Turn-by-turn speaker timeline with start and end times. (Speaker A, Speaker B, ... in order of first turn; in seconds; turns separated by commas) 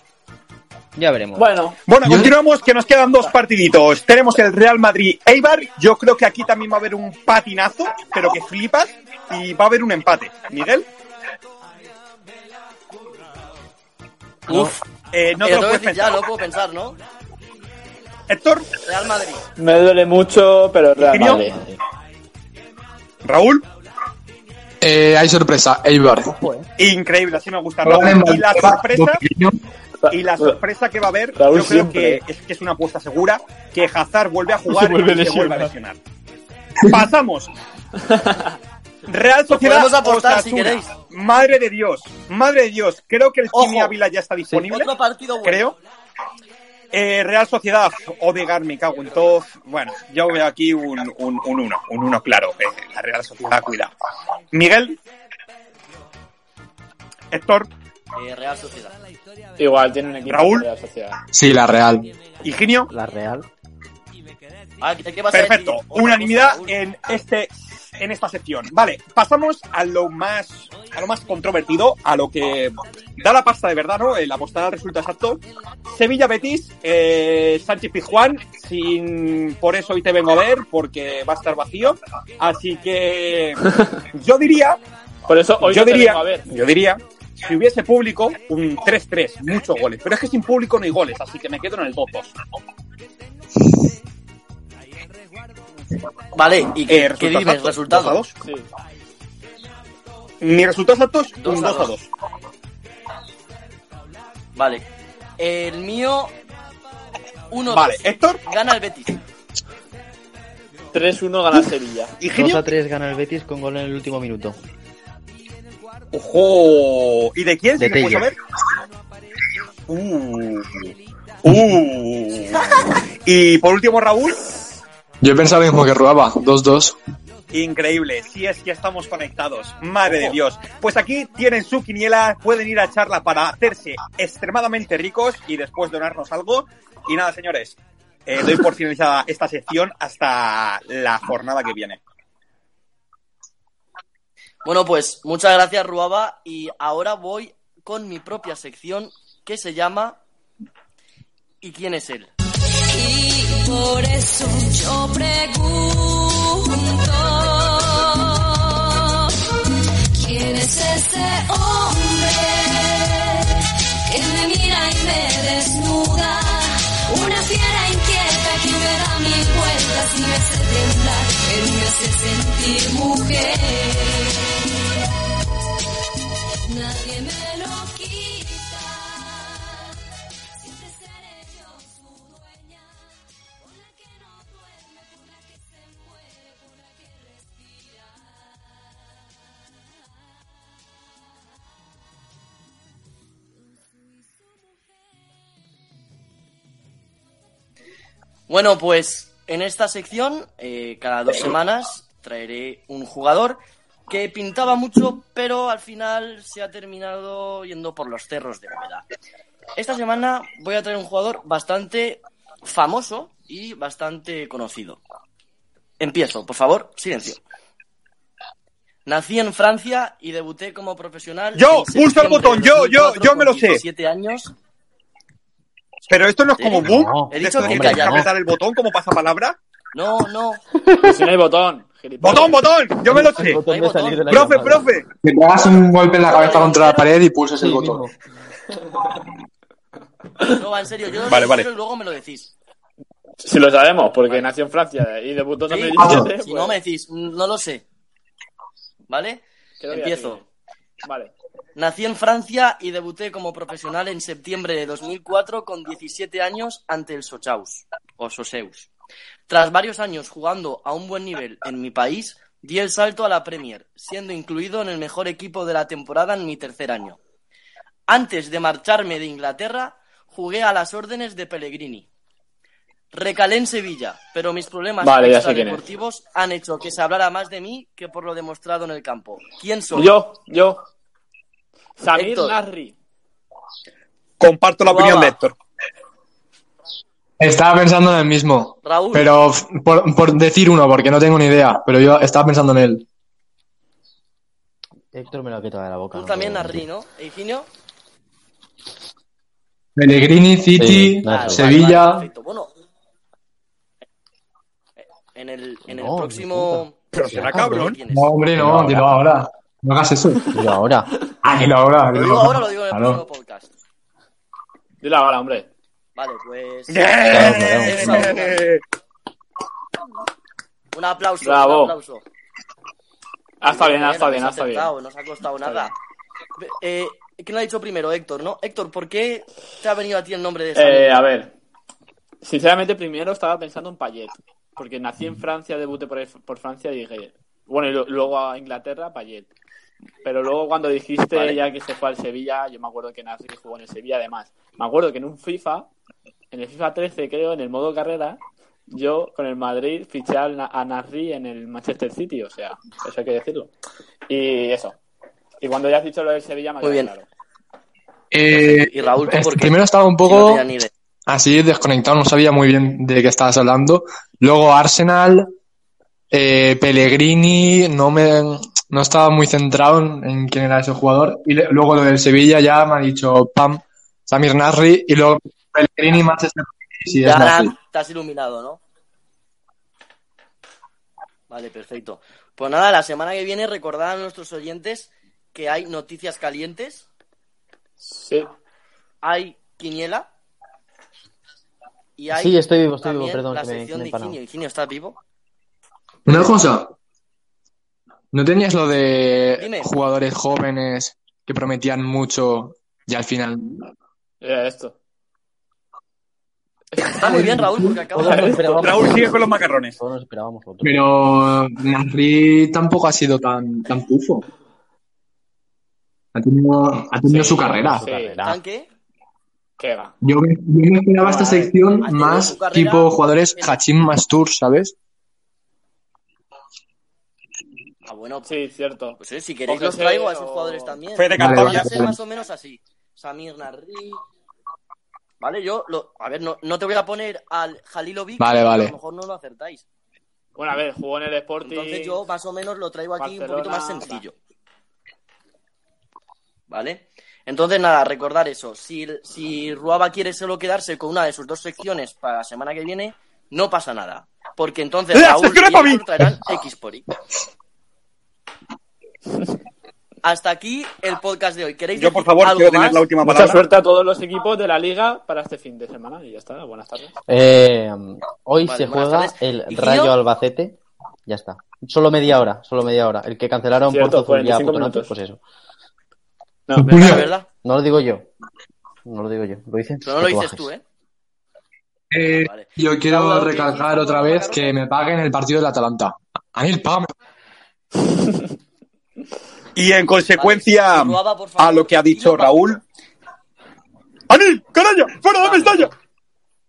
Speaker A: 1.0-1.5, Speaker B: 1.4-1.8, Speaker C: 1.9-10.9, Speaker D: 2.0-2.4, Speaker E: 14.5-14.8, Speaker C: 14.5-16.3, Speaker E: 15.4-17.0, Speaker C: 18.3-18.8, Speaker E: 18.8-19.4, Speaker B: 19.6-21.6, Speaker C: 21.0-21.5, Speaker A: 21.3-21.8, Speaker C: 23.2-23.6, Speaker D: 24.8-26.3, Speaker A: 26.3-26.7, Speaker C: 26.8-29.2, Speaker D: 27.8-29.6, Speaker B: 30.0-30.6, Speaker C: 30.1-36.0, Speaker B: 31.4-32.2, Speaker B: 34.7-35.8, Speaker D: 36.8-37.1, Speaker C: 36.9-37.5, Speaker B: 38.0-38.5, Speaker C: 39.1-44.9, Speaker E: 39.5-40.9, Speaker E: 43.5-43.9, Speaker E: 44.5-45.7, Speaker C: 45.4-45.8, Speaker C: 46.9-53.9, Speaker C: 54.5-55.0, Speaker C: 57.3-57.7, Speaker E: 58.1-59.0, Speaker B: 59.6-61.2, Speaker C: 60.3-60.7, Speaker D: 61.3-62.1, Speaker C: 62.4-62.9, Speaker A: 62.9-63.5, Speaker E: 64.8-66.8, Speaker C: 65.3-84.8, Speaker B: 85.3-86.5, Speaker C: 85.6-92.3, Speaker E: 96.3-98.2, Speaker C: 96.9-98.3, Speaker B: 98.4-98.7, Speaker C: 100.4-102.1, Speaker E: 101.4-101.9, Speaker E: 104.6-104.8, Speaker E: 105.4-106.3, Speaker E: 107.5-109.2, Speaker C: 107.7-108.4, Speaker B: 110.9-112.2, Speaker C: 112.2-112.7, Speaker A: 112.3-114.6, Speaker C: 116.1-118.4, Speaker A: 117.8-118.3, Speaker C: 119.9-120.9, Speaker C: 121.4-124.4, Speaker D: 125.2-127.0, Speaker C: 127.5-142.0, Speaker E: 144.6-150.2, Speaker E: 151.6-152.3, Speaker F: 152.9-159.3, Speaker F: 160.1-174.9, Speaker F: 176.7-179.9, Speaker F: 180.6-183.1, Speaker F: 183.6-188.0, Speaker E: 198.5-209.0, Speaker E: 209.8-215.0, Speaker E: 216.0-217.4, Speaker E: 219.1-224.5, Speaker C: 221.6-223.8, Speaker C: 226.1-229.6, Speaker E: 226.6-228.3, Speaker A: 226.8-228.3, Speaker E: 229.9-230.6, Speaker A: 230.8-231.2, Speaker B: 231.0-232.6, Speaker C: 232.2-233.6, Speaker A: 233.1-234.8, Speaker E: 233.6-234.7, Speaker C: 234.3-235.1, Speaker D: 235.2-238.1, Speaker E: 236.3-237.1, Speaker A: 237.6-238.1, Speaker E: 240.5-242.5, Speaker C: 241.2-241.7, Speaker B: 243.4-246.8, Speaker E: 245.7-247.8, Speaker D: 246.0-246.3, Speaker E: 249.1-250.4, Speaker B: 249.8-250.4, Speaker B: 251.0-251.3, Speaker E: 251.8-258.9, Speaker E: 259.5-267.2, Speaker E: 268.1-272.1, Speaker E: 273.1-280.1, Speaker B: 275.0-275.8, Speaker B: 279.9-280.8, Speaker B: 282.0-282.9, Speaker E: 282.1-282.6, Speaker C: 284.4-285.6, Speaker E: 284.9-285.4, Speaker D: 287.4-293.1, Speaker E: 288.8-289.3, Speaker A: 295.1-296.9, Speaker E: 296.1-297.7, Speaker D: 300.0-302.3, Speaker A: 300.8-301.6, Speaker E: 301.3-302.7, Speaker E: 305.3-307.0, Speaker A: 305.9-307.9, Speaker C: 307.1-308.0, Speaker E: 307.5-308.3, Speaker D: 308.1-310.6, Speaker A: 308.6-309.1, Speaker A: 310.5-311.1, Speaker D: 311.4-313.2, Speaker E: 312.1-313.7, Speaker B: 315.0-315.7, Speaker E: 316.1-318.7, Speaker C: 316.9-318.8, Speaker A: 317.3-318.3, Speaker E: 320.9-322.2, Speaker B: 321.4-321.9, Speaker B: 323.6-324.9, Speaker E: 323.6-325.9, Speaker B: 325.6-325.9, Speaker E: 326.6-331.2, Speaker B: 330.8-331.5, Speaker B: 332.4-339.5, Speaker B: 340.2-345.9, Speaker E: 341.3-341.6, Speaker B: 346.5-353.7, Speaker B: 354.3-355.0, Speaker B: 355.6-357.3, Speaker E: 356.8-357.1, Speaker D: 358.3-360.6, Speaker E: 358.5-360.9, Speaker D: 361.3-365.5, Speaker D: 366.3-377.7, Speaker E: 377.2-378.8, Speaker E: 381.5-387.1, Speaker B: 388.0-388.5, Speaker E: 389.2-390.3, Speaker E: 392.2-395.2, Speaker A: 392.3-394.4, Speaker D: 396.3-396.9, Speaker D: 398.3-403.9, Speaker E: 399.6-399.9, Speaker B: 404.4-405.0, Speaker B: 407.0-407.3, Speaker E: 407.2-409.3, Speaker D: 407.2-408.0, Speaker A: 408.1-410.9, Speaker B: 408.2-408.6, Speaker C: 408.8-410.0, Speaker D: 410.8-414.5, Speaker D: 416.3-418.1, Speaker B: 417.2-418.4, Speaker A: 417.8-418.6, Speaker E: 418.4-418.9, Speaker B: 419.8-420.1, Speaker D: 420.2-424.9, Speaker E: 421.3-423.8, Speaker B: 421.3-421.7, Speaker E: 428.1-428.5, Speaker B: 428.5-431.0, Speaker E: 429.2-434.2, Speaker C: 431.2-431.9, Speaker D: 431.4-432.2, Speaker E: 435.4-439.9, Speaker D: 438.4-438.9, Speaker B: 440.6-442.2, Speaker E: 441.6-444.4, Speaker B: 443.2-444.2, Speaker E: 446.7-457.1, Speaker C: 455.1-456.3, Speaker E: 460.2-463.1, Speaker C: 461.9-463.6, Speaker B: 463.2-467.2, Speaker A: 467.3-475.4, Speaker E: 468.6-470.2, Speaker B: 473.9-475.1, Speaker B: 476.7-477.2, Speaker D: 476.7-477.3, Speaker E: 476.9-477.5, Speaker A: 477.6-478.3, Speaker A: 479.1-480.7, Speaker E: 480.0-480.8, Speaker D: 482.1-487.1, Speaker E: 482.3-484.8, Speaker C: 489.8-492.8, Speaker E: 490.4-492.8, Speaker C: 494.3-495.9, Speaker E: 495.4-495.9